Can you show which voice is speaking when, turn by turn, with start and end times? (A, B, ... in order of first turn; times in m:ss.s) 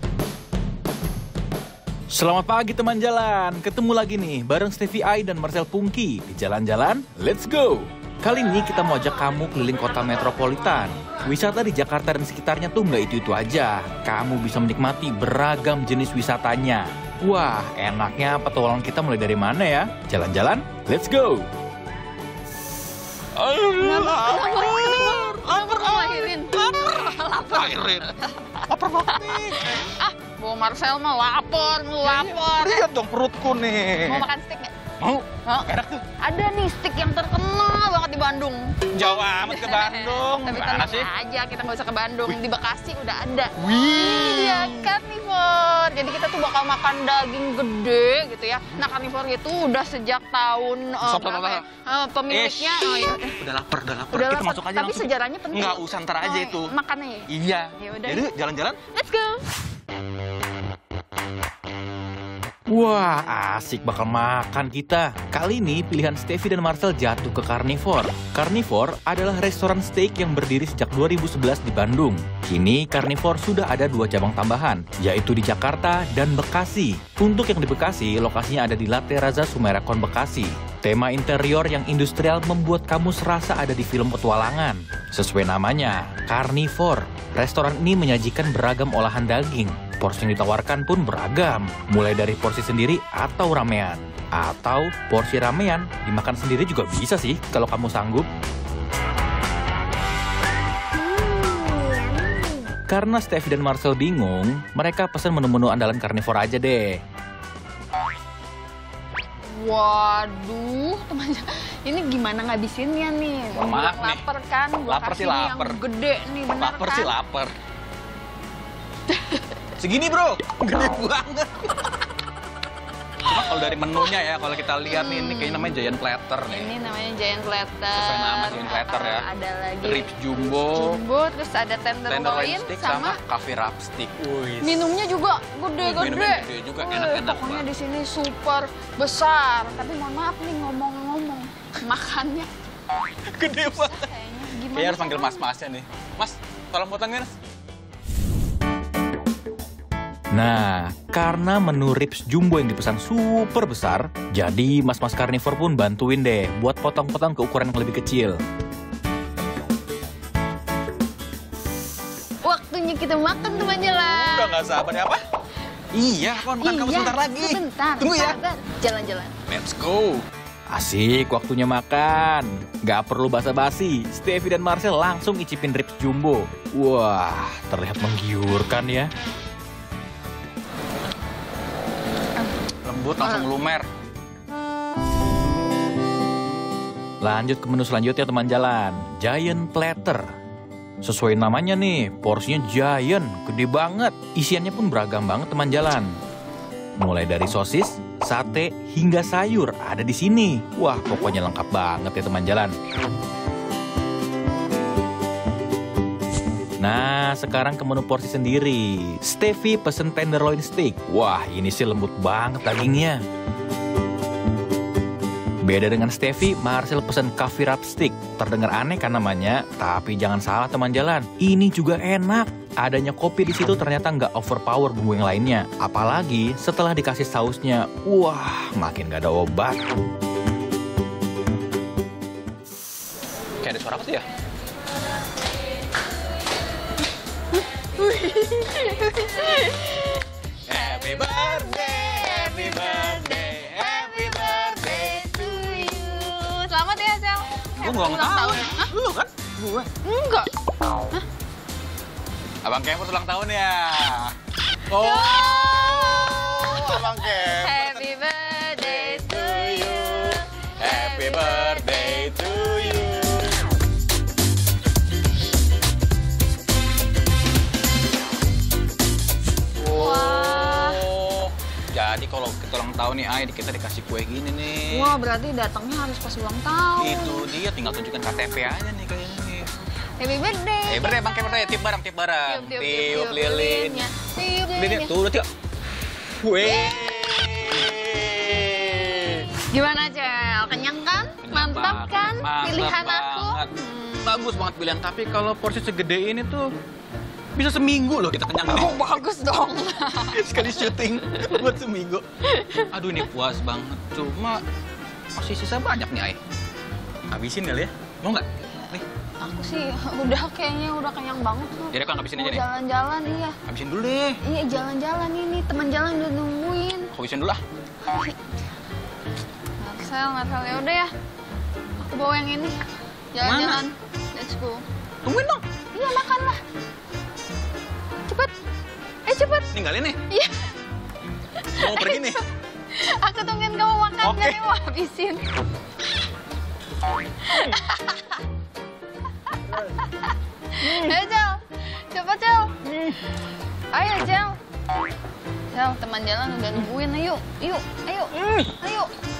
0:02.1-0:21.5 A
0:23.3-0:29.9 B
0:23.8-0:32.9 C
0:32.0-0:34.2 B
0:34.0-0:34.7 C
0:35.0-0:36.0 B
0:36.2-0:38.8 C
0:38.9-0:41.1 B
0:39.5-0:53.3 C
0:43.6-0:44.9 B
0:51.0-0:51.6 B
0:52.3-0:56.7 B
0:54.1-0:58.3 C
0:57.3-0:58.8 B
0:58.9-0:59.4 C
1:02.7-1:38.3 A
1:41.2-1:42.3 C
1:42.9-1:47.0 A
1:49.5-1:57.1 C
1:53.6-1:54.2 B
1:54.9-1:55.8 B
1:56.6-1:57.5 B
1:59.1-1:59.5 C
1:59.8-2:02.0 B
2:03.2-2:06.7 B
2:04.8-2:05.7 C
2:06.5-2:13.2 C
2:07.9-2:09.2 B
2:09.8-2:11.0 B
2:12.1-2:14.8 B
2:14.6-2:22.5 C
2:15.8-2:17.7 B
2:23.3-2:24.0 B
2:23.6-2:25.5 C
2:24.7-2:27.3 B
2:30.3-2:38.4 A
2:42.4-2:44.6 C
2:44.0-2:45.2 B
2:45.9-2:48.4 B
2:46.6-2:49.3 C
2:49.5-2:50.2 B
2:50.7-2:59.1 A
3:02.8-3:03.9 B
3:07.2-3:10.3 A
3:11.0-3:16.2 A
3:17.0-3:22.8 A
3:26.8-3:33.2 A
3:35.6-3:49.8 A
3:53.6-3:54.2 B
3:57.8-4:08.9 C
4:00.7-4:05.4 B
4:07.8-4:09.3 B
4:09.6-4:10.5 C
4:12.6-4:14.4 B
4:14.9-4:18.0 B
4:14.9-4:23.1 C
4:18.8-4:23.5 B
4:29.8-4:35.1 B
4:29.9-4:31.0 C
4:34.9-4:37.5 C
4:37.0-4:39.7 B
4:40.2-4:41.4 C
4:40.9-4:44.0 B
4:42.5-4:45.1 C
4:44.7-4:45.5 B
4:46.4-4:49.5 B
4:46.6-4:47.0 C
4:49.7-4:54.2 C
4:51.4-4:56.7 B
4:57.5-4:59.0 B
4:58.7-5:00.4 C
5:00.3-5:02.2 B
5:02.4-5:02.9 C
5:02.9-5:04.6 B
5:05.3-5:06.4 B
5:07.3-5:09.0 B
5:08.8-5:13.6 C
5:11.9-5:12.6 B
5:13.7-5:14.4 B
5:14.4-5:17.1 C
5:17.1-5:17.6 B
5:18.0-5:18.4 C
5:19.8-5:21.1 C
5:22.0-5:22.8 C
5:23.3-5:24.8 C
5:23.4-5:23.8 B
5:25.2-5:25.6 B
5:25.9-5:26.6 C
5:28.3-5:28.5 C
5:29.2-5:29.7 C
5:29.7-5:30.2 B
5:30.3-5:30.7 C
5:31.6-5:35.4 C
5:31.8-5:32.4 B
5:34.2-5:34.6 B
5:37.4-5:38.4 C
5:39.5-5:42.8 C
5:40.8-5:41.1 B
5:42.8-5:43.2 B
5:43.9-5:44.6 C
5:45.7-5:49.1 C
5:48.3-5:48.7 B